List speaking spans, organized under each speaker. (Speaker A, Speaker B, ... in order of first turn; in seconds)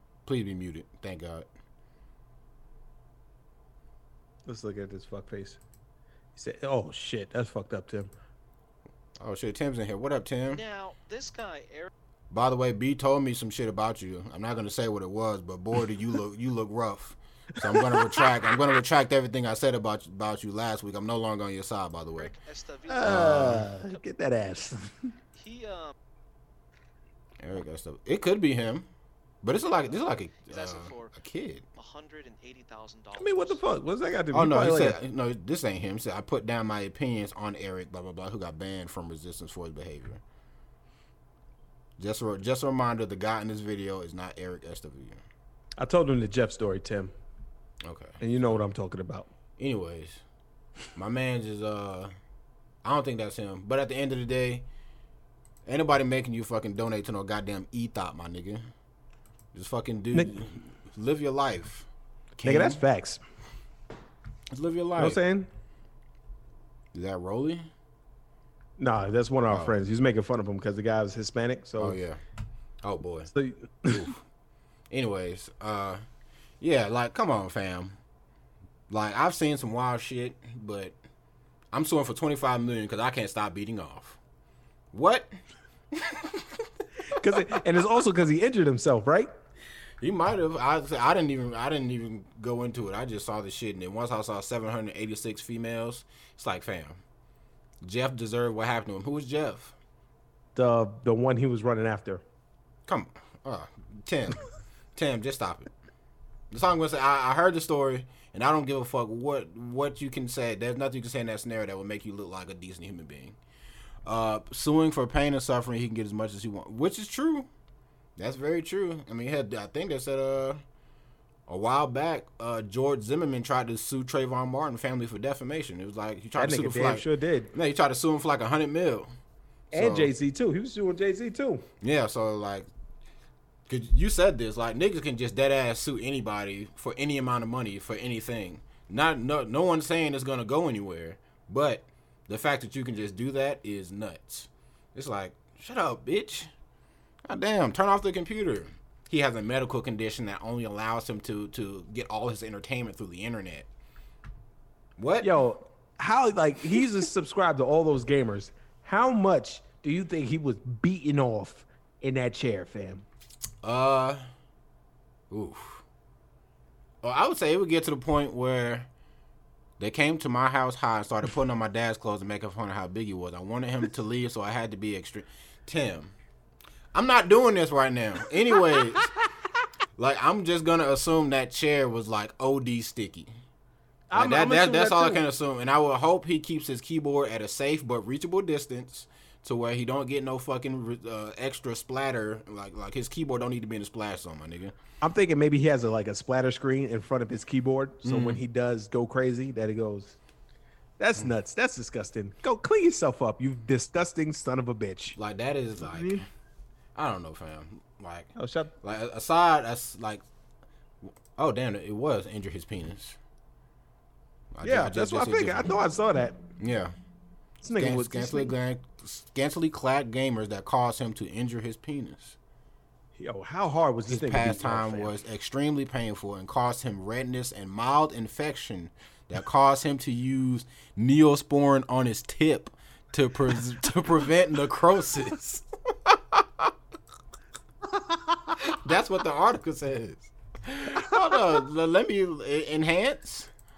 Speaker A: 0.2-1.5, 9.2-10.6, 12.3-22.3, 23.0-23.7, 27.4-28.9, 29.4-31.7, 34.3-40.2, 42.0-45.2, 47.8-48.2, 49.6-50.2, 51.0-52.1, 52.8-54.7, 55.7-58.6, 59.5-62.8, 64.5-65.2, 66.9-67.7, 69.5-69.8, 71.8-72.2, 72.8-73.3, 73.9-74.1, 74.9-76.0, 76.6-78.0, 78.9-81.0, 81.7-84.2, 84.9-85.4, 85.9-86.7, 90.0-97.0, 97.8-99.8, 102.9-104.4, 105.0-105.7, 106.5-113.4, 114.0-117.5, 118.2-120.6, 121.5-129.1, 129.7-130.1, 131.8-132.7, 133.7-146.5, 147.3-153.7, 155.0-155.3, 163.6-164.3, 165.3-165.8, 167.0-168.9, 169.8-176.1, 176.9-179.1, 180.0-183.3, 184.1-194.8, 198.0-198.4, 205.2-206.3, 206.9-210.2, 211.4-213.2, 214.6-215.7, 216.6-216.9, 217.7-222.4, 224.1-236.7, 238.6-243.5
Speaker B: 4.5-5.6, 6.4-8.1, 17.7-18.3, 22.9-25.1, 33.2-35.0, 45.8-47.1, 48.2-49.3, 62.5-63.2, 65.0-65.5, 68.8-72.0, 73.3-74.1, 87.1-89.3, 100.6-102.2, 126.4-127.5, 129.7-131.7, 155.2-163.0, 184.1-185.2, 195.0-200.2, 201.0-205.2, 205.9-206.2, 208.4-208.7, 214.6-216.4, 217.6-218.5, 223.2-225.1
Speaker C: 10.5-11.9, 22.2-23.3, 25.4-25.9, 30.4-31.1, 31.8-33.6